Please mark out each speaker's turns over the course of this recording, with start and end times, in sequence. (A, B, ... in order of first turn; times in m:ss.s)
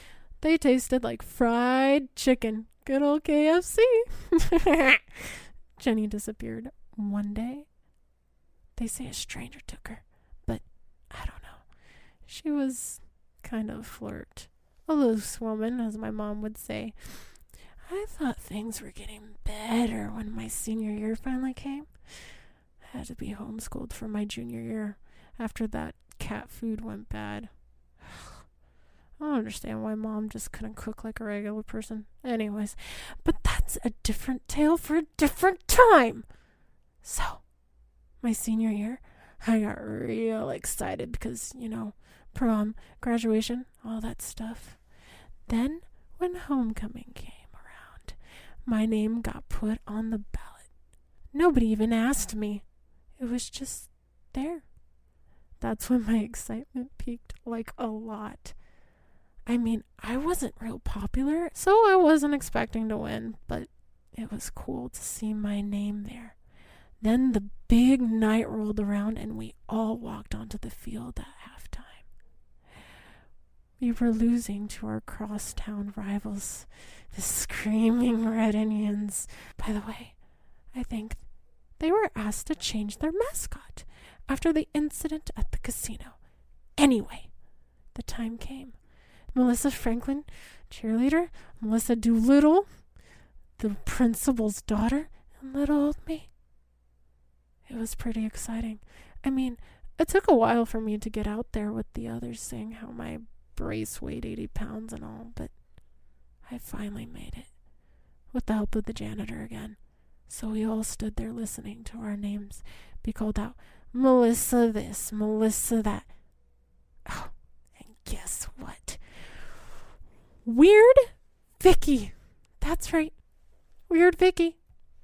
0:00.4-0:07.7 A
0:08.8-0:11.6 A
0:12.2-0:21.9 A
0:22.8-0:27.5 A
0:28.0-0:28.3 A
0:29.2-0:36.2 A
0:37.0-0:37.4 A
0:38.2-0:44.8 A
0:45.5-0:50.7 A
0:51.3-0:52.6 A
0:53.2-0:54.6 A
0:55.6-0:58.5 A
0:59.4-1:06.3 A
1:07.0-1:12.0 A
1:13.8-1:20.1 A
1:20.7-1:21.2 A
1:21.8-1:26.2 A
1:26.8-1:27.3 A
1:27.9-1:28.7 A
1:29.3-1:32.7 A
1:33.6-1:36.3 A
1:37.7-1:45.5 A
1:46.4-1:47.5 A
1:48.3-1:49.8 A
1:50.3-1:56.1 A
1:57.0-1:59.5 A
2:00.4-2:01.1 A
2:01.6-2:03.1 A
2:03.9-2:04.6 A